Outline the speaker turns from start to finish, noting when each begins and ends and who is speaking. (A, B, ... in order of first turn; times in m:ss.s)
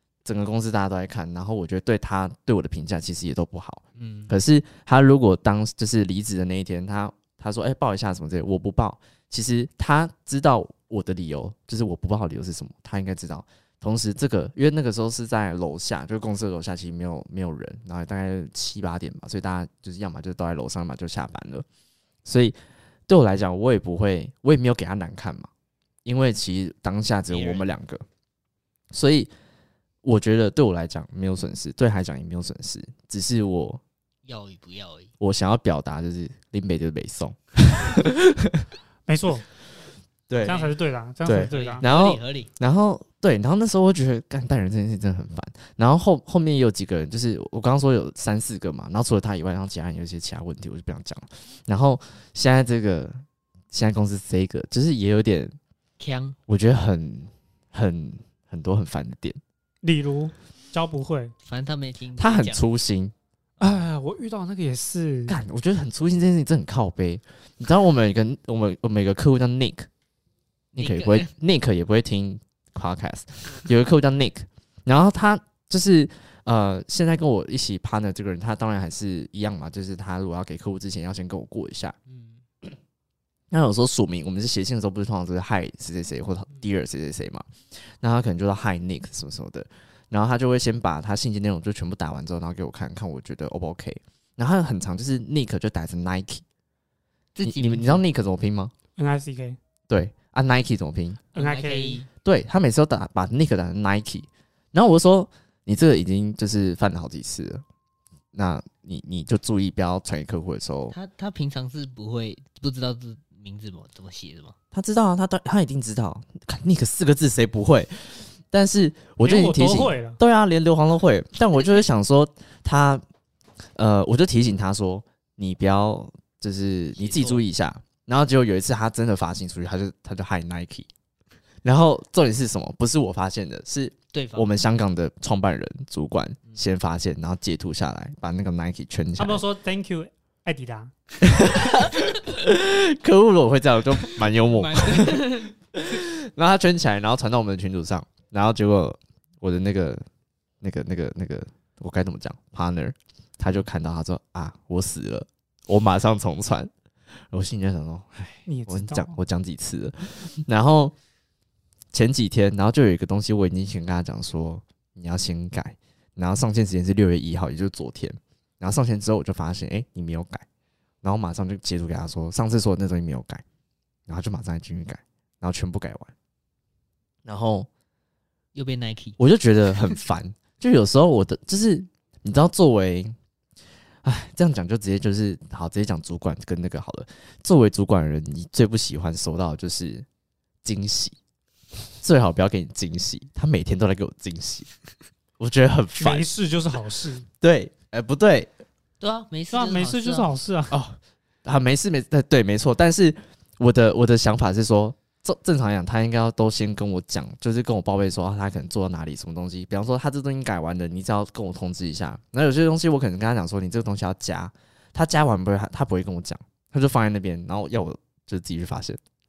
0:00.2-0:21.6 A
0:04.0-0:04.3 B
0:22.2-0:22.6 A
0:23.1-0:25.5 A
0:26.0-0:28.0 A
0:27.3-0:27.6 B
0:28.9-0:29.3 A
0:30.0-0:33.8 A
0:34.2-0:35.1 B
0:35.2-0:38.6 A
0:39.1-0:39.4 C
0:40.3-0:40.6 A
0:40.4-0:41.8 C
0:40.5-0:40.7 B
0:41.2-0:55.5 A
0:41.5-0:42.5 B
0:56.0-0:56.4 B
0:56.5-0:59.4 A
0:59.8-1:01.3 C
1:01.4-1:02.6 B
1:02.2-1:03.1 A
1:03.6-1:05.4 C
1:05.3-1:09.9 A
1:10.7-1:21.9 A
1:10.8-1:11.3 B
1:22.1-1:22.4 B
1:23.5-1:36.4 A
1:37.4-1:38.0 B
1:37.4-1:38.7 A
1:39.0-1:39.6 C
1:39.9-1:41.2 A
1:41.3-1:42.0 C
1:41.3-1:42.1 B
1:42.2-1:47.6 A
1:48.3-1:50.9 A
1:50.9-1:54.5 B
1:54.7-2:03.0 A
1:59.2-2:00.2 C
2:03.8-2:10.9 A
2:07.0-2:07.4 B
2:11.6-2:19.4 A
2:14.1-2:14.5 B
2:19.2-2:21.6 C
2:21.2-2:30.0 A
2:24.4-2:25.5 B
2:30.6-2:36.7 A
2:37.3-2:40.9 A
2:38.4-2:39.2 C
2:41.9-2:50.4 A
2:51.0-2:53.4 A
2:54.1-2:56.1 A
2:57.2-2:57.7 A
2:58.5-2:59.2 B
2:59.2-3:03.1 A
3:04.0-3:10.0 A
3:10.6-3:11.2 A
3:12.0-3:14.7 A
3:15.4-3:16.3 A
3:16.0-3:17.3 C
3:17.4-3:18.5 A
3:19.0-3:20.3 B
3:19.5-3:20.7 C
3:20.7-3:39.0 A